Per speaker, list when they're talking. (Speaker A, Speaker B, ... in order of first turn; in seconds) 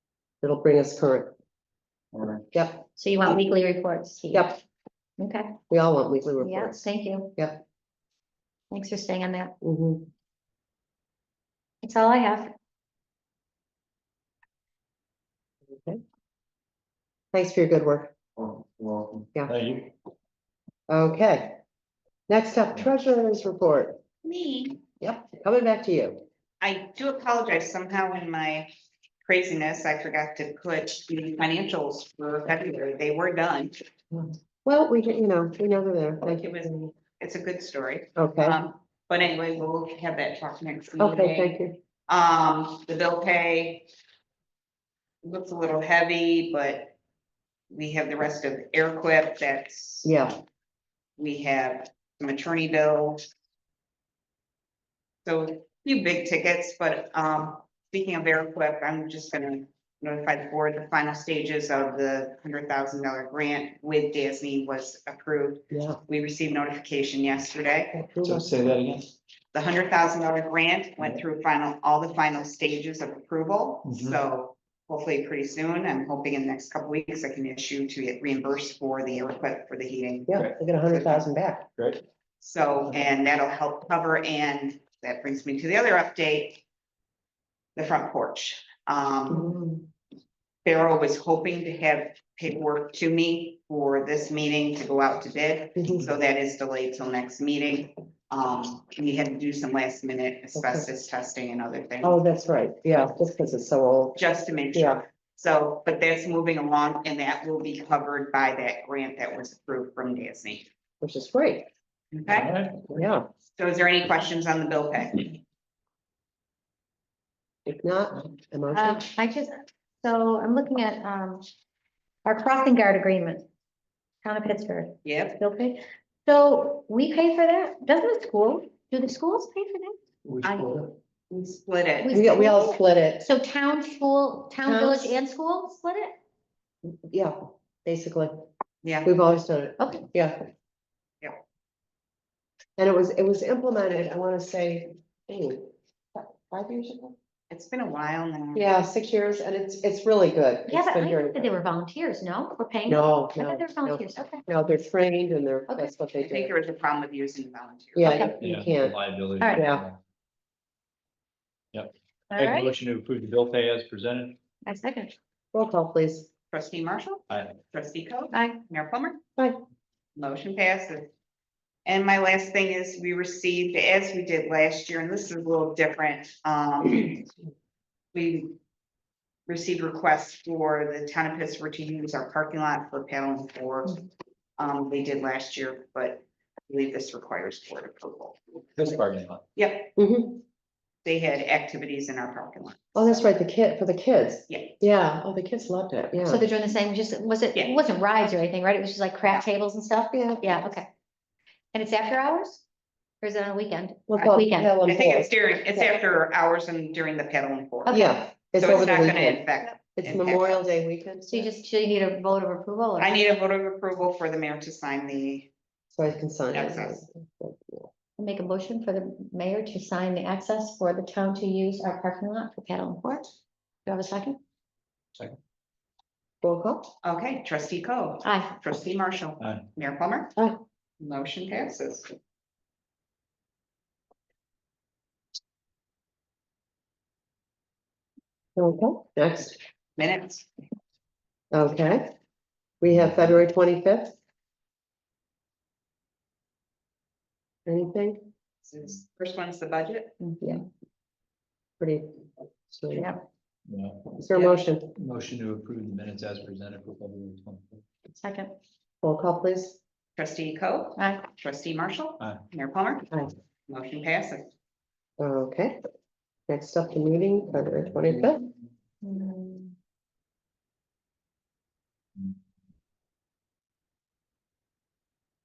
Speaker A: 0.4-1.3, 2.5-2.9, 5.7-7.6, 9.6-10.1, 15.7-16.0, 17.3-18.5, 20.9-21.6, 22.3-24.0, 25.0-26.2, 34.1-36.9, 38.2-38.6, 41.0-41.8, 50.0-50.4, 65.7-66.0, 67.9-68.7, 80.3-81.7, 89.3-89.8, 95.8-96.0, 100.5-100.9, 102.0-104.2, 104.7-105.0, 111.0-111.7, 113.0-113.3, 117.7-119.1, 132.1-133.3, 134.7-135.1, 137.0-138.3, 139.0-140.5, 142.8-147.2, 148.6-151.6, 152.9-156.5, 158.0-159.0, 159.5-159.8, 165.5-166.3, 190.0-190.4, 192.9-196.5, 200.1-200.7, 204.1-205.9, 207.9-211.5, 215.9-217.9, 226.4-226.9, 230.4-230.6, 238.6-239.6, 241.5-242.1, 242.8-244.2, 247.7-248.3, 251.8-252.1, 252.7-253.1, 254.2-254.9, 259.0-259.8, 265.2-265.8, 266.5-268.5
Speaker B: 2.1-2.4, 19.5-19.9, 68.2-69.1, 130.3-130.8, 158.4-160.0, 162.5-164.4, 188.8-189.4, 253.7-254.0, 255.0-257.8
Speaker C: 3.0-4.6, 5.2-5.6, 6.4-7.4, 8.7-9.5, 11.8-12.5, 118.7-121.4, 122.2-123.5, 124.2-129.9, 132.0-136.2, 139.8-140.1, 150.7-154.5, 155.7-156.0, 158.1-158.4, 159.4-159.7, 162.3-162.7, 164.7-165.1, 168.3-168.6, 196.3-200.9, 201.7-202.6, 203.2-204.8, 207.9-208.2, 211.2-213.4, 218.2-223.3, 223.9-224.4, 228.2-228.6, 250.2-250.7, 252.9-253.2, 258.1-258.5, 261.0-261.3, 269.0-269.8
Speaker D: 24.2-24.8, 26.6-28.7, 29.2-33.8, 36.3-41.6, 42.1-43.9, 45.2-47.0, 47.7-50.2, 51.2-53.2, 55.2-68.0, 69.5-80.3, 80.9-81.3, 82.4-86.6, 87.8-89.5, 90.7-102.2, 104.2-110.7, 112.1-112.5, 113.6-115.4, 125.0-125.4, 130.4-132.2, 138.8-139.1, 147.5-148.7, 156.2-158.3, 166.5-169.2, 170.2-171.1, 171.8-177.3, 178.1-178.6, 179.5-184.0, 184.6-188.4, 189.6-189.9, 191.1-193.3, 194.5-194.7, 197.6-197.8, 204.9-210.7, 213.0-215.5, 216.5-217.1, 227.0-230.3, 231.0-232.1, 240.0-240.5, 248.6-250.1, 254.3-254.6, 260.2-263.1, 263.7-264.5